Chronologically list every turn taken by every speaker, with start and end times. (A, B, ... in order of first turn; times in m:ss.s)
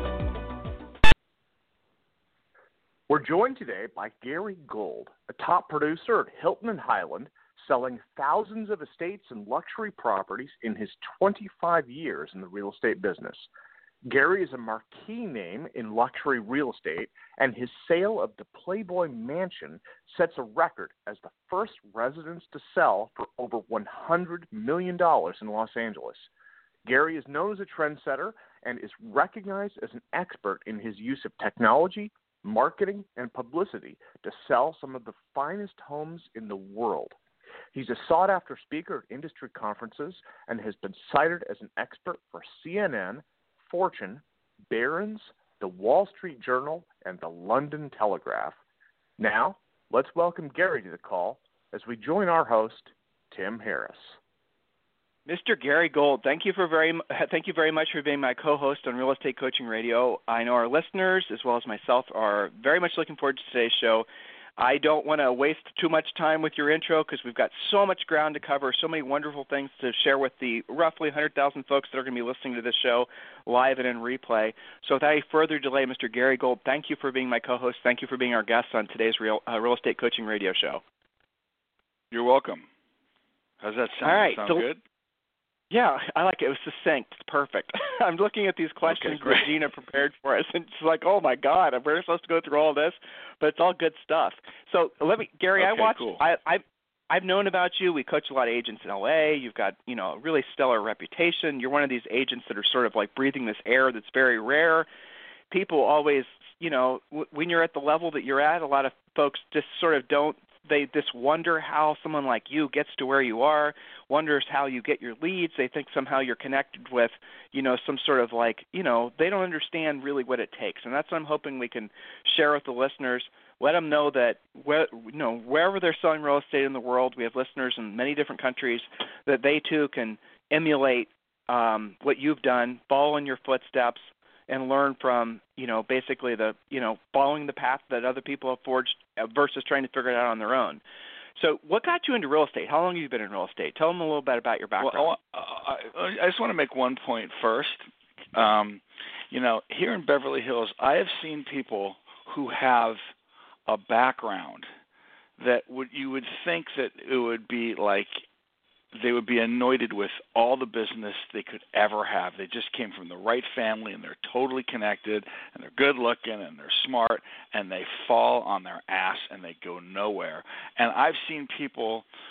0:03.1-0:13.5 A
0:14.1-0:26.3 A
0:26.8-0:37.2 A
0:37.7-0:48.6 A
0:49.2-0:54.2 A
0:55.3-1:20.8 B
1:22.1-1:22.7 C
1:23.6-1:24.8 C
1:24.0-1:24.7 B
1:25.7-1:44.9 B
1:28.9-1:29.5 C
1:35.6-1:36.2 C
1:45.5-2:20.8 B
2:21.4-2:25.2 B
2:24.8-2:33.0 C
2:33.7-2:34.7 C
2:35.4-2:38.2 C
2:38.9-2:52.1 C